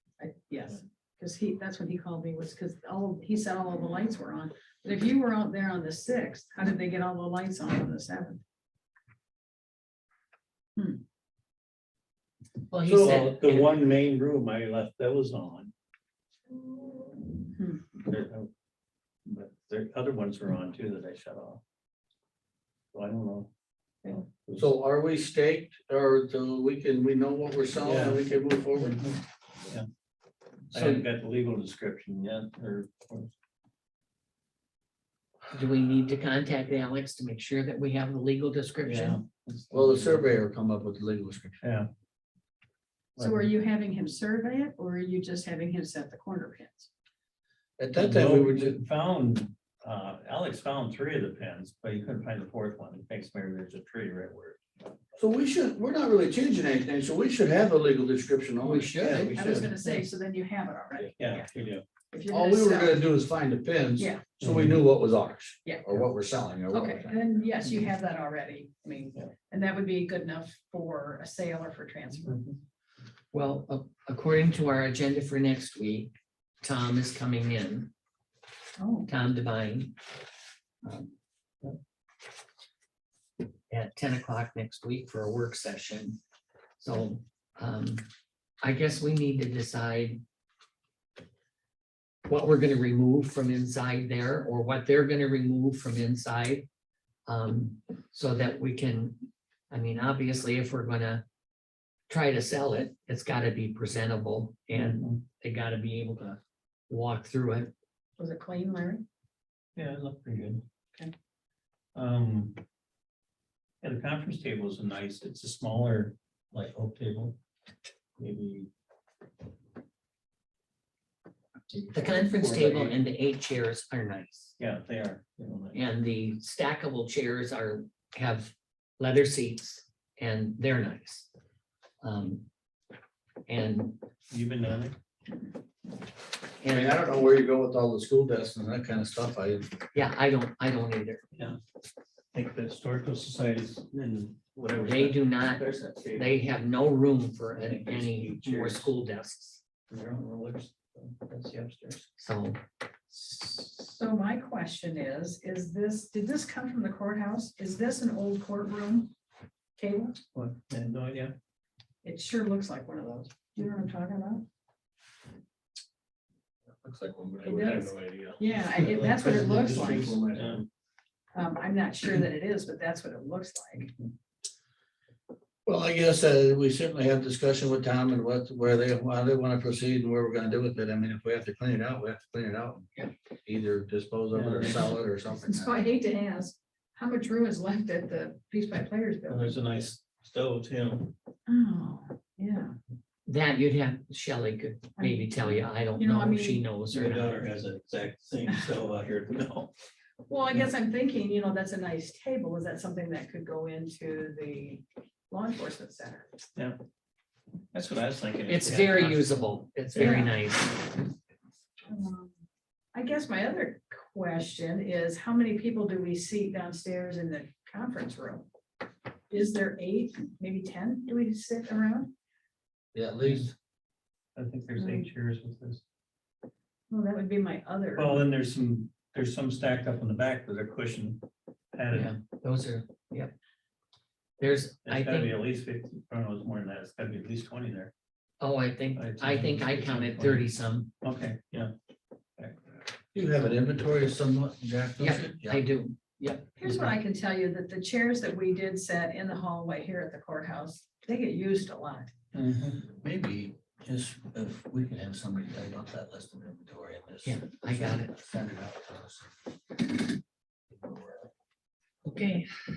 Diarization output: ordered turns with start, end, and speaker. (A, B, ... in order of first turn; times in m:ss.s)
0:00.2-0:08.4 A
0:10.8-0:11.0 A
0:12.7-0:13.8 B
0:12.8-0:13.2 C
0:12.9-0:15.7 D
0:17.5-0:17.8 A
0:18.0-0:18.5 D
0:19.2-0:21.6 D
0:22.9-0:23.5 D
0:24.0-0:24.7 D
0:24.6-0:29.0 C
0:27.8-0:29.2 D
0:30.7-0:33.3 D
0:30.7-0:31.0 B
0:35.5-0:39.2 B
0:38.8-0:40.2 D
0:39.7-0:41.6 C
0:41.6-0:41.9 D
0:43.2-0:43.5 D
0:43.2-0:46.9 A
0:47.8-0:48.8 C
0:47.9-0:54.6 D
0:55.2-0:59.1 C
0:58.6-1:00.0 B
0:59.0-0:59.7 D
0:59.0-1:01.5 A
1:01.2-1:01.8 D
1:02.1-1:03.0 A
1:02.3-1:07.2 C
1:04.0-1:04.3 A
1:04.4-1:04.8 D
1:05.6-1:06.0 A
1:06.7-1:12.4 A
1:12.1-1:12.6 D
1:13.3-1:17.9 B
1:18.8-1:19.1 A
1:19.0-1:19.9 B
1:20.8-1:21.1 B
1:23.7-1:26.2 B
1:26.8-1:28.0 B
1:28.6-1:30.2 B
1:32.2-1:36.7 B
1:37.2-1:41.2 B
1:42.1-1:47.7 B
1:44.8-1:45.2 D
1:48.2-1:49.0 A
1:49.8-1:50.6 D
1:51.9-1:52.6 D
1:53.8-1:57.4 D
1:58.2-1:58.7 D
2:01.7-2:03.0 D
2:01.9-2:04.6 B
2:04.6-2:05.8 D
2:05.7-2:11.3 B
2:12.0-2:12.4 B
2:13.5-2:14.0 B
2:14.3-2:15.0 D
2:16.6-2:17.0 B
2:16.6-2:19.7 C
2:19.9-2:21.2 B
2:22.3-2:26.4 D
2:24.7-2:25.6 B
2:26.1-2:29.6 B
2:27.6-2:28.9 D
2:29.9-2:32.1 D
2:32.2-2:32.6 B
2:33.1-2:39.1 A
2:39.8-2:40.2 A
2:40.3-2:41.3 D
2:42.0-2:44.4 A
2:46.8-2:50.6 C
2:47.4-2:50.2 A
2:48.9-2:50.7 D
2:51.3-2:53.9 A
2:55.6-3:05.8 C
3:04.3-3:05.0 D
3:05.3-3:09.6 A
3:09.3-3:11.1 D
3:11.5-3:12.8 A
3:13.2-3:17.4 B
3:15.0-3:16.6 A
3:16.9-3:19.7 D
3:20.2-3:26.2 A
3:27.7-3:29.5 D
3:28.5-3:31.0 B
3:29.9-3:30.4 A
3:31.9-3:32.3 A
3:32.9-3:38.5 A
3:39.3-3:42.1 A
3:42.9-3:43.5 C
3:43.2-3:43.5 D
3:44.3-3:45.8 D
3:44.8-3:45.1 A
3:46.9-3:48.3 A
3:47.9-3:52.1 D
3:51.9-3:53.3 B
3:54.4-3:55.3 B
3:54.8-3:57.9 D
3:58.4-4:00.9 B
3:58.9-4:00.5 D
4:01.0-4:01.7 D
4:03.1-4:05.6 C
4:05.0-4:06.6 B
4:06.6-4:12.1 A
4:12.3-4:12.8 D
4:12.9-4:19.3 C
4:17.2-4:18.1 B
4:20.7-4:21.3 C
4:22.0-4:22.5 B